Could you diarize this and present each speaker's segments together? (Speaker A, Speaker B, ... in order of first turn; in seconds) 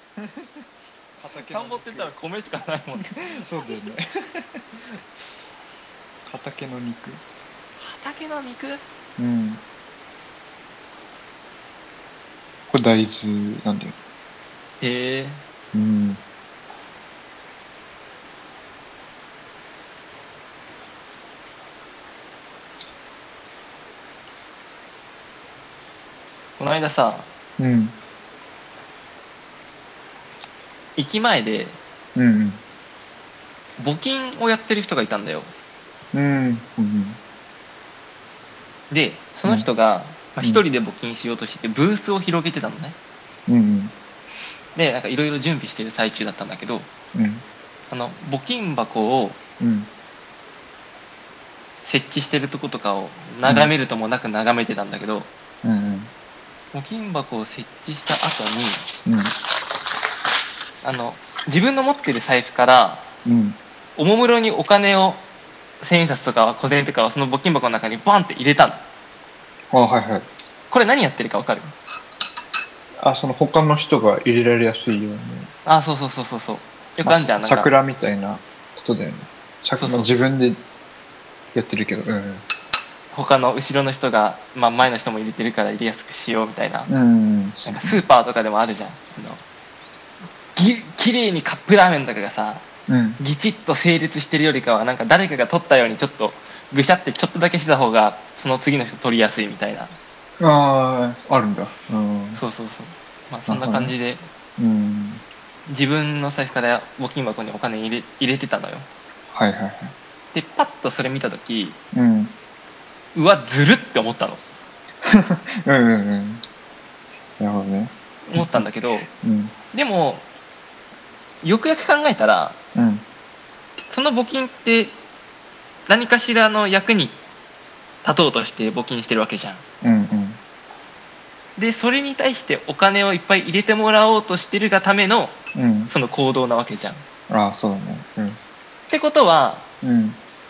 Speaker A: 0.2-0.5, 1.2-2.1, 3.0-4.6, 6.3-7.2, 9.2-9.6, 12.7-13.9, 15.7-16.2, 27.6-27.9, 32.1-32.6, 36.1-37.2, 43.5-43.9, 47.1-47.4, 49.6-49.9, 53.4-53.7, 55.6-56.1, 59.0-59.3, 63.2-63.6, 69.7-70.3, 73.0-75.5, 77.0-80.6, 81.5-82.4, 86.9-88.0, 92.9-93.2, 100.4-102.4, 103.5-103.9, 104.6-105.2, 109.3-109.9, 111.9-112.3, 115.0-116.4, 117.4-119.5, 122.7-123.0, 129.8-130.4, 135.5-135.9, 137.3-138.4, 139.8-140.2
Speaker B: 1.4-3.2, 7.8-8.8, 14.8-15.4, 26.6-27.3, 30.9-31.8, 33.8-35.5, 38.9-43.0, 44.8-46.9, 47.9-49.4, 51.8-55.3, 56.7-58.9, 60.8-63.0, 64.0-65.2, 65.8-68.8, 70.7-71.7, 75.7-77.7, 79.8-80.2, 83.1-86.9, 87.7-89.4, 90.5-92.6, 93.2-99.9, 102.3-104.3, 105.7-108.9, 110.3-111.8, 113.1-114.4, 118.2-119.1, 119.7-120.2, 121.4-122.6, 123.9-125.0, 125.9-127.2, 128.0-129.6, 131.6-135.3, 135.9-137.0, 138.9-139.7